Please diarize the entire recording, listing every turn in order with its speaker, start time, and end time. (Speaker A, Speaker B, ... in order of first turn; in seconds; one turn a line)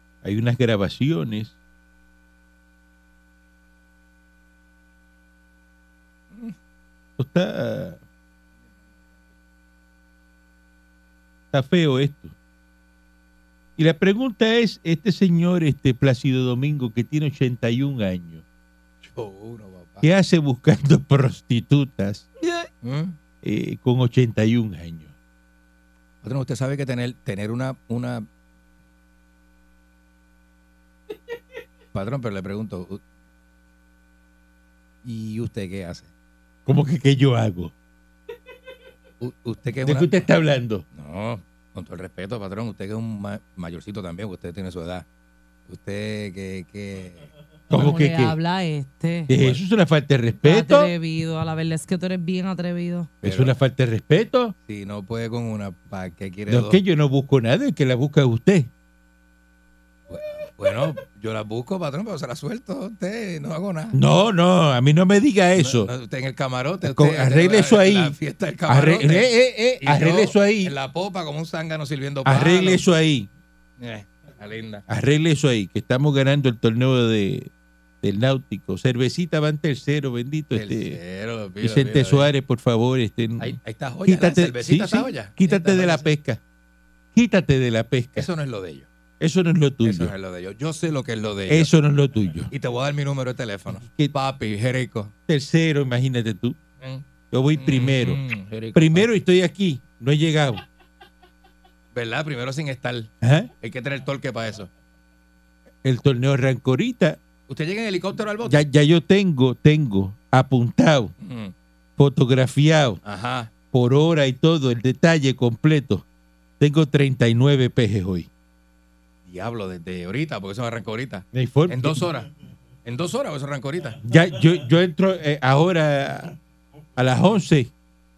Speaker A: 0.2-1.5
Speaker A: 7.2-8.0
Speaker A: 11.5-12.3
Speaker A: 13.8-18.4
Speaker B: 19.0-20.1
Speaker A: 20.0-22.3
Speaker B: 22.8-23.2
Speaker A: 23.4-25.1
Speaker B: 26.2-28.3
Speaker B: 31.9-33.0
Speaker B: 35.0-36.1
Speaker A: 36.6-37.7
Speaker B: 39.2-40.2
Speaker A: 39.8-40.8
Speaker B: 40.9-45.0
Speaker B: 45.7-47.3
Speaker A: 47.7-48.3
Speaker C: 47.7-49.3
Speaker A: 49.3-50.9
Speaker C: 50.4-53.1
Speaker B: 53.2-53.5
Speaker A: 53.2-54.5
Speaker B: 54.6-56.8
Speaker A: 56.5-58.7
Speaker B: 60.1-64.0
Speaker A: 63.9-65.9
Speaker B: 65.6-72.8
Speaker A: 66.8-68.1
Speaker A: 68.7-70.7
Speaker A: 72.2-73.3
Speaker B: 73.8-74.8
Speaker A: 74.9-77.5
Speaker A: 78.0-81.0
Speaker B: 80.5-82.3
Speaker A: 81.6-86.4
Speaker B: 83.4-86.1
Speaker A: 87.1-88.3
Speaker B: 88.2-88.9
Speaker A: 89.2-90.1
Speaker B: 89.8-91.7
Speaker A: 91.5-92.5
Speaker B: 92.5-95.1
Speaker A: 93.8-94.1
Speaker A: 95.3-96.6
Speaker A: 97.3-98.2
Speaker B: 97.5-99.1
Speaker A: 98.7-100.6
Speaker B: 101.9-103.1
Speaker A: 103.2-103.5
Speaker B: 103.6-104.7
Speaker A: 105.8-107.2
Speaker B: 107.5-108.6
Speaker A: 108.5-111.1
Speaker B: 111.2-111.5
Speaker A: 112.0-113.0
Speaker B: 113.0-113.5
Speaker A: 113.7-116.0
Speaker A: 116.6-118.3
Speaker B: 119.3-122.3
Speaker A: 121.3-122.0
Speaker B: 122.8-124.0
Speaker A: 124.0-126.3
Speaker A: 127.0-127.7